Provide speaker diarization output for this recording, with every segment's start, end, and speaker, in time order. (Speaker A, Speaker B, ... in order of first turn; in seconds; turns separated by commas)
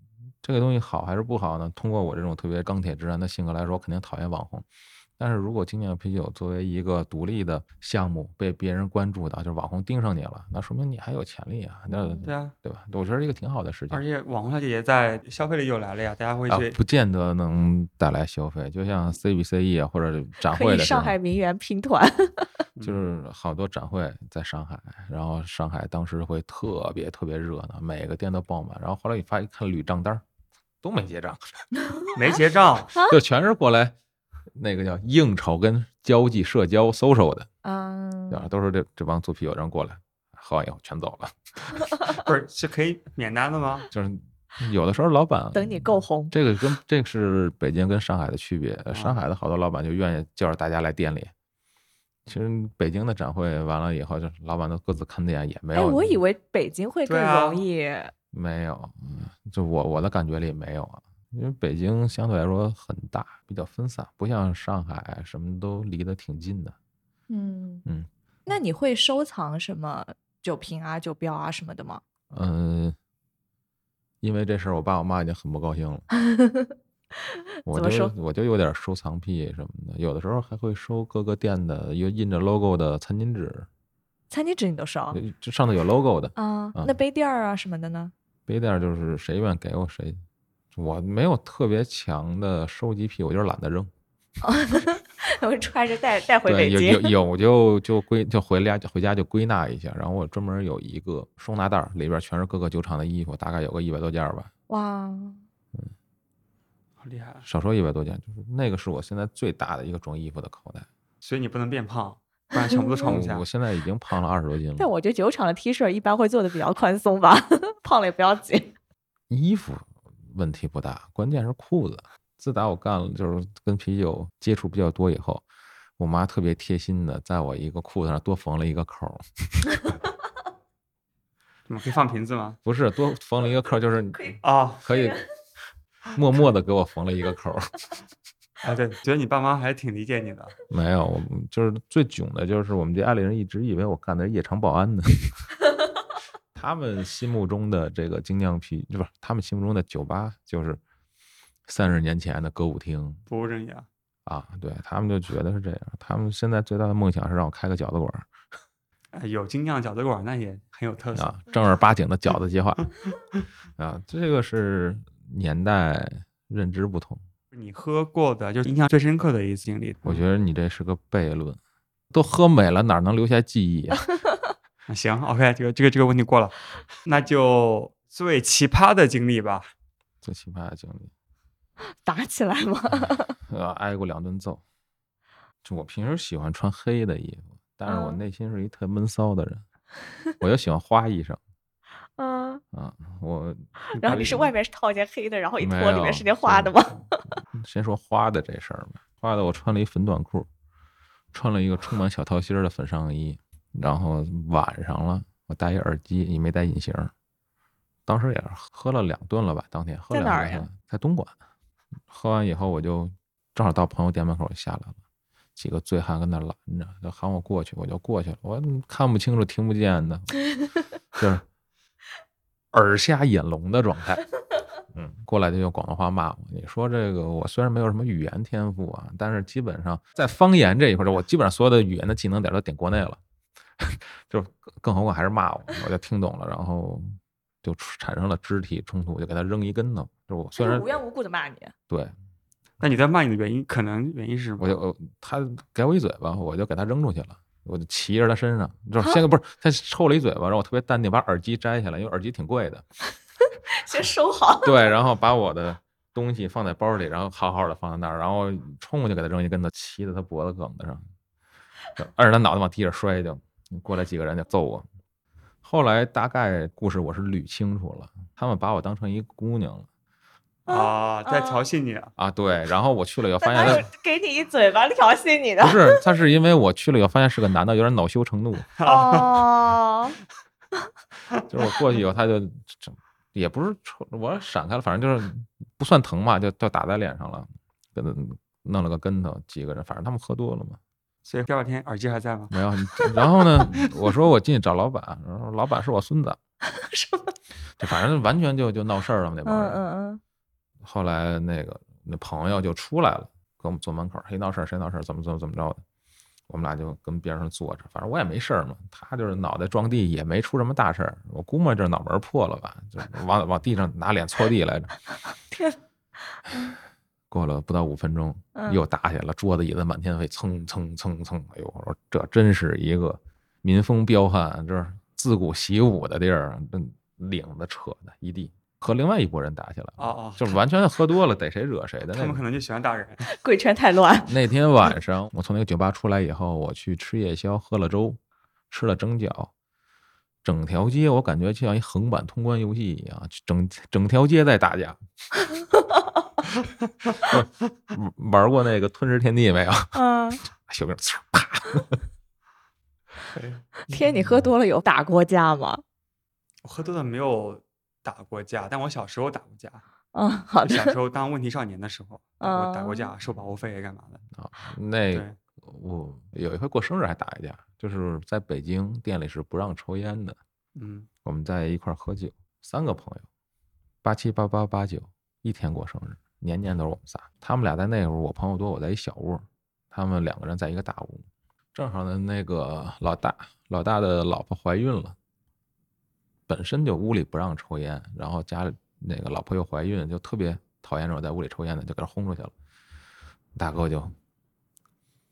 Speaker A: 0.4-4.7, Speaker A: 5.2-14.0, Speaker B: 11.9-12.3, Speaker C: 12.2-12.5, Speaker C: 13.9-16.8, Speaker A: 16.5-21.2, Speaker B: 20.4-22.5, Speaker A: 22.8-30.2, Speaker A: 30.8-31.5, Speaker C: 32.1-32.9, Speaker A: 33.0-34.0, Speaker A: 34.5-37.5, Speaker B: 37.6-38.5, Speaker A: 38.3-41.9, Speaker C: 42.1-43.9, Speaker A: 43.9-51.3, Speaker B: 45.5-46.3, Speaker C: 48.9-49.2, Speaker A: 52.3-56.2, Speaker B: 55.7-58.1, Speaker C: 57.1-57.6, Speaker A: 58.3-66.8, Speaker B: 67.3-67.8, Speaker B: 68.5-72.0, Speaker A: 72.3-73.0, Speaker A: 74.2-76.1, Speaker B: 76.2-76.7, Speaker B: 77.3-78.1, Speaker A: 77.7-83.7, Speaker B: 84.3-85.2, Speaker A: 85.1-87.0, Speaker B: 86.4-88.1, Speaker A: 88.5-90.2, Speaker A: 90.7-93.9, Speaker B: 94.4-97.1, Speaker A: 96.5-104.5, Speaker B: 104.7-105.4, Speaker C: 107.0-107.5, Speaker A: 107.5-110.9, Speaker C: 111.2-113.4, Speaker B: 112.6-113.1, Speaker A: 113.0-114.9, Speaker B: 114.8-118.7, Speaker A: 119.3-125.5, Speaker A: 126.0-129.7, Speaker C: 131.7-132.6, Speaker A: 132.7-135.2, Speaker B: 134.1-134.4, Speaker C: 134.4-134.8, Speaker B: 134.9-135.2, Speaker A: 136.1-137.7, Speaker C: 138.6-140.6, Speaker A: 140.7-145.5, Speaker A: 146.6-150.8, Speaker A: 151.7-153.2, Speaker C: 153.3-153.9, Speaker A: 154.3-158.3, Speaker C: 159.1-161.4, Speaker A: 161.2-162.9, Speaker A: 163.8-167.2, Speaker C: 167.5-170.2, Speaker A: 170.0-171.6, Speaker A: 172.1-174.1, Speaker C: 174.9-179.7, Speaker A: 180.2-181.1, Speaker B: 181.9-183.4, Speaker A: 183.5-184.6, Speaker A: 185.6-189.6, Speaker B: 187.9-188.2, Speaker A: 190.4-191.4, Speaker B: 192.2-192.6, Speaker A: 192.7-194.4, Speaker B: 193.9-197.2, Speaker C: 194.0-194.5, Speaker A: 195.6-196.7, Speaker A: 197.5-200.5, Speaker A: 201.3-207.1, Speaker A: 208.1-211.3, Speaker B: 210.1-210.7, Speaker A: 212.1-215.0, Speaker A: 215.6-220.4, Speaker A: 221.1-221.4, Speaker A: 222.7-224.2, Speaker A: 224.9-233.2, Speaker A: 233.8-240.9, Speaker B: 240.6-241.7, Speaker C: 242.8-244.8, Speaker A: 244.6-252.8, Speaker B: 253.7-254.9, Speaker A: 254.6-261.1, Speaker A: 262.0-264.9, Speaker A: 265.6-269.9, Speaker B: 270.7-271.6, Speaker C: 270.7-272.1, Speaker A: 272.2-273.9, Speaker B: 273.4-276.0, Speaker A: 275.6-278.7, Speaker C: 278.8-279.4, Speaker B: 278.8-280.2, Speaker A: 281.5-290.8, Speaker C: 291.3-292.6, Speaker A: 292.5-296.4, Speaker B: 296.7-297.4, Speaker A: 297.8-299.8, Speaker B: 299.4-300.2, Speaker A: 300.8-305.8, Speaker A: 306.5-315.0, Speaker B: 315.5-315.8, Speaker B: 316.3-316.7, Speaker A: 317.3-332.4, Speaker B: 318.6-318.8, Speaker C: 330.0-330.6, Speaker C: 332.1-333.3, Speaker B: 333.2-334.3, Speaker A: 334.3-338.2, Speaker A: 338.7-339.5, Speaker A: 340.4-345.0, Speaker B: 345.6-346.1, Speaker A: 347.2-352.0, Speaker B: 349.9-350.4, Speaker C: 353.3-354.0, Speaker B: 353.9-355.8, Speaker C: 356.6-359.8, Speaker B: 360.1-361.0, Speaker C: 360.6-364.2, Speaker B: 362.4-363.1, Speaker A: 364.4-370.4, Speaker C: 370.8-371.1, Speaker A: 371.2-373.3, Speaker A: 374.0-385.2, Speaker A: 386.5-392.5, Speaker A: 393.6-394.1